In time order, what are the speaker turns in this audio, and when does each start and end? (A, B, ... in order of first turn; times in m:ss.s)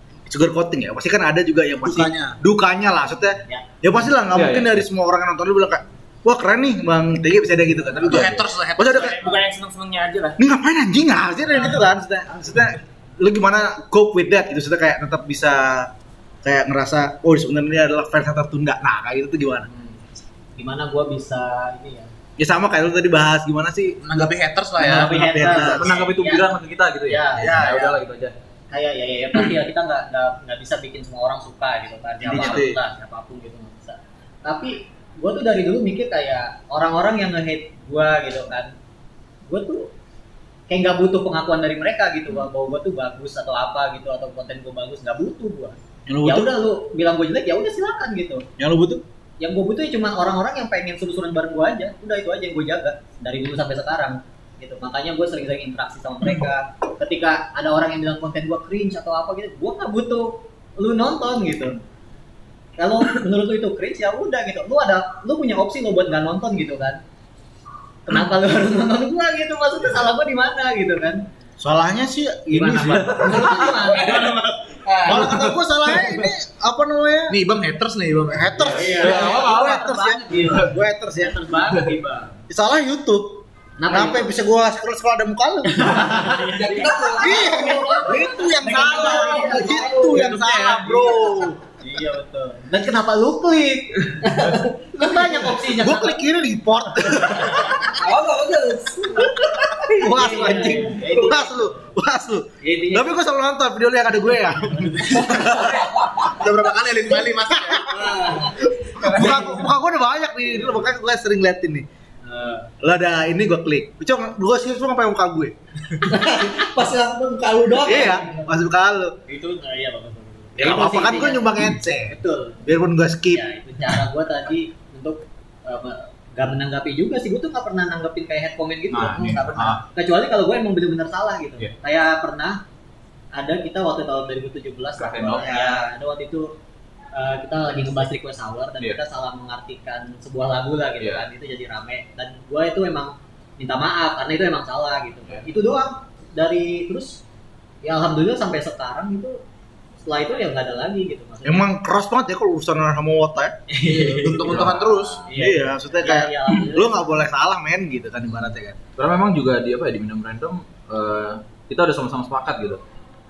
0:00.3-0:09.4 A
0:01.8-0:02.4 B
0:04.3-0:04.8 C
0:07.9-0:09.2 B
0:08.1-0:10.4 D
0:10.4-0:15.9 A
0:16.4-0:19.7 A
0:19.7-0:20.0 E
0:20.6-0:22.1 E
0:22.4-0:24.3 A
0:24.0-0:25.5 B
0:24.8-0:26.4 E
0:24.9-0:26.0 A
0:25.4-0:28.3 C
0:27.1-0:27.5 E
0:27.4-0:27.9 B
0:27.4-0:27.8 A
0:28.7-0:38.7 E
0:32.2-0:32.8 A
0:39.4-0:39.9 E
0:40.7-0:48.4 E
0:46.1-0:46.5 A
0:48.6-0:49.0 A
0:49.4-1:01.8 E
1:02.8-1:07.0 E
1:08.0-1:11.2 E
1:11.6-1:13.7 A
1:12.5-1:15.4 E
1:12.8-1:13.8 C
1:13.8-1:14.5 D
1:15.0-1:17.4 A
1:15.1-1:15.5 C
1:17.3-1:19.0 B
1:18.3-1:21.4 A
1:18.7-1:22.3 E
1:19.0-1:19.8 C
1:22.5-1:26.2 A
1:23.8-1:24.3 E
1:25.7-1:30.2 E
1:26.4-1:30.2 F
1:27.2-1:31.6 A
1:30.1-1:30.9 B
1:31.8-1:36.2 E
1:35.0-1:38.0 A
1:37.2-1:37.9 E
1:37.9-1:41.3 F
1:39.7-1:45.9 A
1:40.0-1:41.9 E
1:42.6-1:43.2 E
1:45.0-1:45.6 E
1:46.4-1:48.0 B
1:47.1-1:48.1 A
1:47.8-1:49.5 E
1:49.0-1:51.8 A
1:52.2-1:52.7 E
1:52.8-1:55.5 A
1:56.1-1:56.6 E
1:56.1-1:58.2 F
1:57.8-1:59.1 A
1:57.8-1:58.5 E
1:59.3-2:02.6 E
2:00.6-2:03.4 A
2:03.3-2:12.6 E
2:08.9-2:09.8 C
2:13.3-2:16.5 E
2:15.0-2:15.8 C
2:17.1-2:27.2 E
2:21.0-2:21.2 C
2:27.8-2:29.4 E
2:30.0-2:31.7 E
2:31.4-2:33.6 A
2:33.7-2:34.7 E
2:33.9-2:35.2 B
2:34.4-2:35.2 C
2:35.2-2:37.0 E
2:35.3-2:38.8 A
2:39.0-2:42.8 C